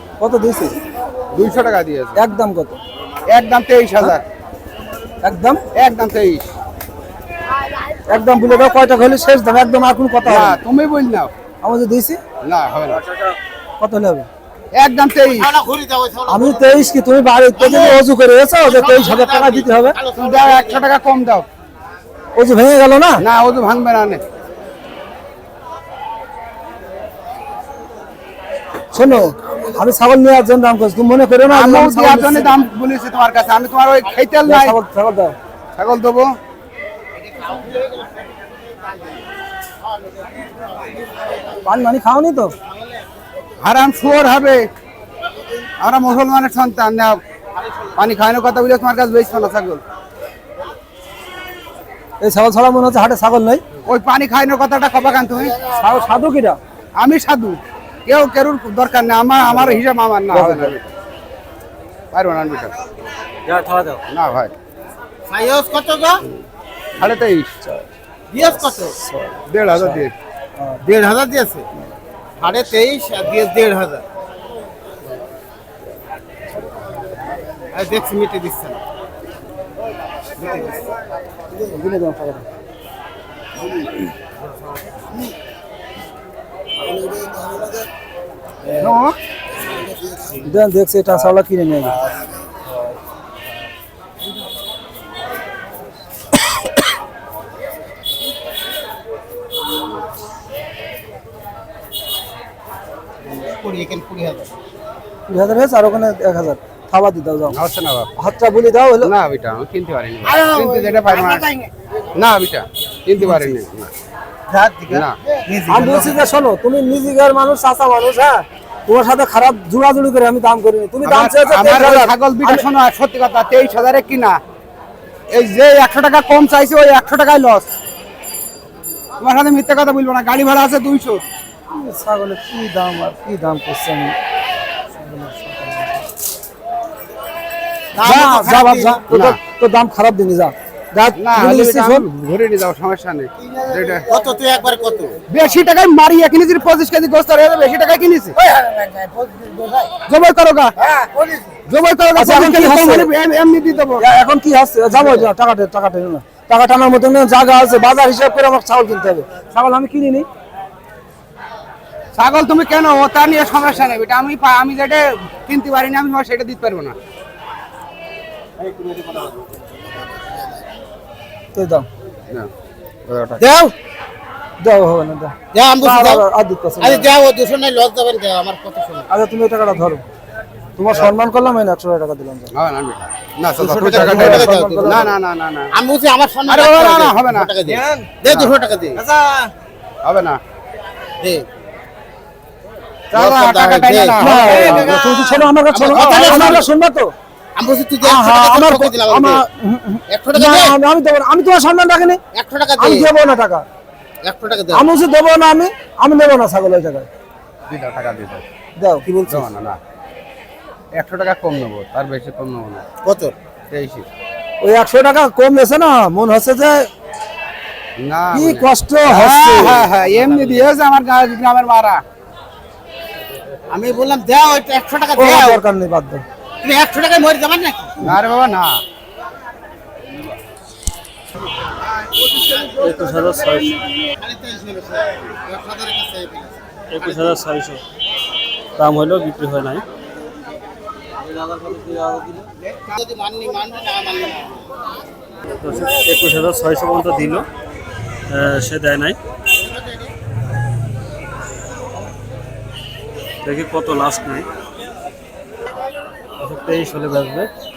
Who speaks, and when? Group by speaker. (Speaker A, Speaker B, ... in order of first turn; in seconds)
Speaker A: 0.2-0.8, 2.1-2.8, 5.2-5.6, 8.1-10.6, 11.6-12.2, 13.8-14.3, 16.3-20.0, 22.4-23.2, 28.9-32.5, 34.4-35.3, 41.6-42.5, 52.2-53.6, 55.7-56.6, 59.4-60.8, 68.4-70.0, 81.5-82.4, 87.0-87.6, 90.4-92.0, 105.3-107.6, 108.2-109.1, 115.7-122.6, 131.7-134.1, 134.9-136.0, 138.0-142.0, 152.1-153.1, 154.0-160.3, 171.5-171.8, 174.6-177.1, 179.1-180.1, 180.8-182.5, 183.6-185.1, 194.2-197.1, 198.0-202.2, 202.8-203.6, 204.7-207.1, 208.8-209.4, 214.6-216.9, 218.3-219.9, 225.2-226.2
Speaker B: 1.3-2.2, 3.2-4.2, 5.7-6.5, 10.2-11.3, 12.4-13.0, 14.7-15.5, 20.1-21.4, 23.2-24.2, 31.5-34.8, 35.8-36.3, 43.6-44.6, 45.8-47.2, 47.9-49.8, 53.9-55.6, 57.0-60.9, 62.1-62.7, 64.1-64.5, 67.0-67.5, 69.5-70.1, 88.7-89.1, 107.5-108.1, 109.0-111.4, 112.1-113.9, 114.9-115.1, 121.0-124.4, 125.3-127.7, 129.2-131.2, 139.1-139.4, 141.2-144.1, 145.3-148.4, 149.9-150.7, 151.7-154.0, 162.1-166.9, 173.1-173.4, 182.5-185.7, 186.5-188.6, 190.0-190.4, 193.1-195.0, 195.8-196.7, 207.7-208.4, 209.1-209.8, 210.9-212.8, 213.7-214.1, 218.0-222.0, 228.0-228.8, 232.1-232.7
Speaker C: 15.2-16.9, 17.6-18.0, 18.6-20.9, 37.2-38.2, 65.3-66.2, 68.3-69.0, 70.8-71.7, 72.4-74.0, 77.7-78.8, 80.4-80.9, 103.3-104.5, 110.2-111.7, 114.5-116.3, 137.9-139.0, 144.1-145.2, 148.6-149.8, 151.0-151.3, 173.4-173.7, 175.5-176.2, 176.8-179.1, 183.8-185.1, 185.7-189.0, 191.2-191.4, 193.1-196.7, 197.6-199.4, 200.1-200.8, 202.3-203.1, 204.2-204.9, 213.0-213.3, 220.1-220.6, 223.7-225.6, 226.6-228.0, 234.2-236.6, 242.6-244.7, 249.5-250.1
Speaker D: 63.5-64.0, 232.8-233.8, 236.9-237.8, 238.8-239.8, 241.3-242.4, 245.6-247.5, 248.3-249.2, 253.4-254.5, 256.4-257.5